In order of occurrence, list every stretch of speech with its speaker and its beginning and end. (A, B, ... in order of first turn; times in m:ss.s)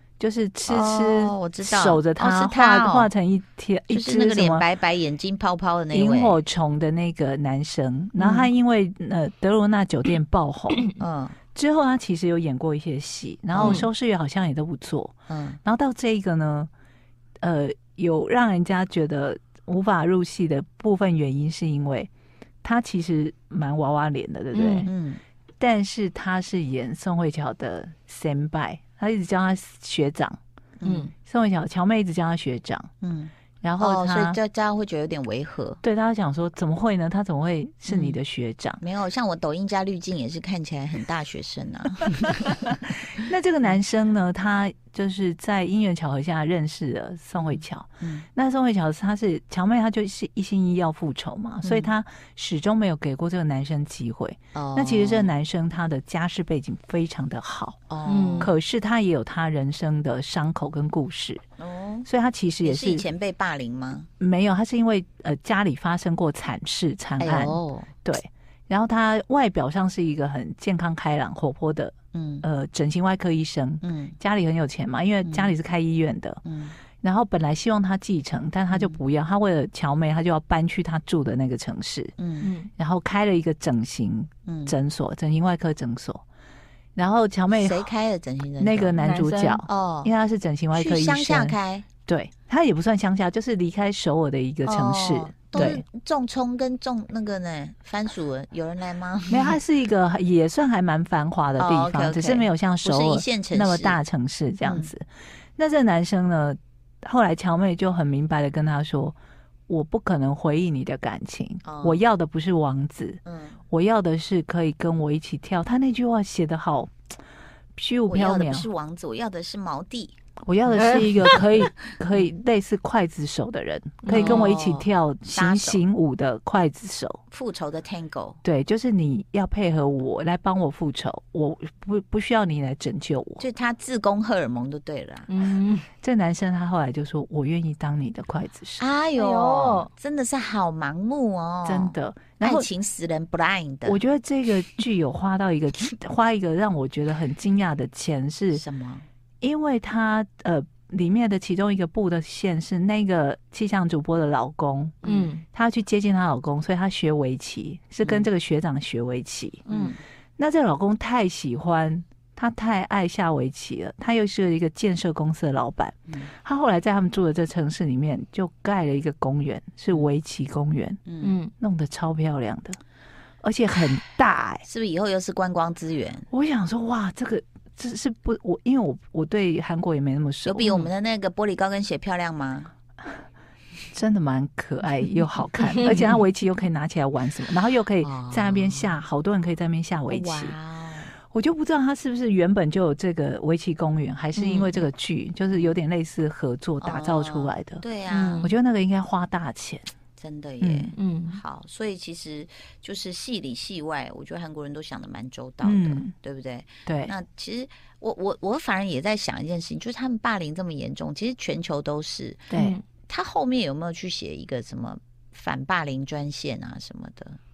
0:00.2-0:04.6 A
0:00.7-0:03.1 B
0:03.9-0:06.4 B
0:05.9-0:10.9 A
0:11.0-0:11.4 B
0:11.5-0:16.7 A
0:13.5-0:13.9 B
0:15.3-0:15.6 B
0:17.4-0:22.1 A
0:22.6-0:24.9 A
0:24.5-0:24.9 C
0:24.8-0:25.2 B
0:25.6-0:30.4 A
0:30.8-0:31.1 B
0:30.8-0:31.1 C
0:31.2-0:32.9 A
0:33.0-0:35.8 B
0:33.6-0:34.4 A
0:35.8-0:38.8 A
0:37.9-0:38.2 B
0:38.8-0:42.6 B
0:43.2-0:57.8 A
0:47.4-0:48.2 B
0:51.6-0:51.9 B
0:54.5-0:55.3 B
0:57.9-0:58.5 B
0:58.0-0:58.5 C
0:58.4-1:01.4 A
1:01.6-1:02.1 B
1:02.0-1:03.0 A
1:02.6-1:04.1 B
1:04.2-1:16.4 A
1:07.2-1:07.9 B
1:12.1-1:12.4 B
1:13.8-1:14.2 B
1:15.2-1:15.5 B
1:16.4-1:16.8 B
1:17.0-1:22.1 A
1:18.7-1:19.0 B
1:22.2-1:22.5 B
1:22.4-1:22.7 C
1:22.8-1:26.2 A
1:24.4-1:24.7 B
1:27.0-1:27.8 A
1:27.5-1:28.9 B
1:28.6-1:31.6 A
1:29.0-1:29.6 C
1:29.7-1:30.1 B
1:30.7-1:31.8 B
1:32.1-1:35.8 A
1:34.6-1:39.6 B
1:39.3-1:45.0 A
1:41.6-1:44.0 B
1:44.6-1:44.9 B
1:45.6-1:49.1 A
1:49.7-1:56.9 A
1:51.6-1:52.0 B
1:53.2-1:53.6 B
1:57.7-1:58.7 A
1:58.1-2:00.1 B
2:00.4-2:07.2 A
2:00.7-2:01.1 C
2:04.0-2:04.5 C
2:04.1-2:05.8 B
2:07.3-2:08.4 B
2:08.4-2:13.4 A
2:13.4-2:15.3 B
2:15.3-2:15.9 C
2:16.0-2:18.8 A
2:18.8-2:24.0 B
2:19.2-2:19.9 C
2:21.6-2:22.7 A
2:23.8-2:28.6 A
2:28.5-2:29.0 B
2:29.4-2:35.0 A
2:35.0-2:35.3 B
2:35.0-2:35.4 C
2:35.5-2:39.7 A
2:39.7-2:40.0 B
2:40.4-2:51.0 A
2:51.0-2:51.4 B
2:51.2-2:51.5 C
2:51.6-2:52.8 A
2:53.4-2:54.6 A
2:54.6-2:56.3 B
2:56.3-3:00.9 A
3:00.4-3:02.7 B
3:03.9-3:10.5 A
3:08.0-3:08.9 B
3:10.1-3:11.1 B
3:11.3-3:17.8 A
3:14.3-3:14.8 B
3:16.8-3:18.5 B
3:18.1-3:18.5 C
3:18.4-3:19.9 A
3:20.2-3:32.4 B
3:20.6-3:20.9 A
3:21.0-3:21.4 C
3:25.6-3:26.1 A
3:26.8-3:27.1 A
3:32.5-3:32.8 A
3:32.5-3:32.8 C
3:33.1-3:37.4 B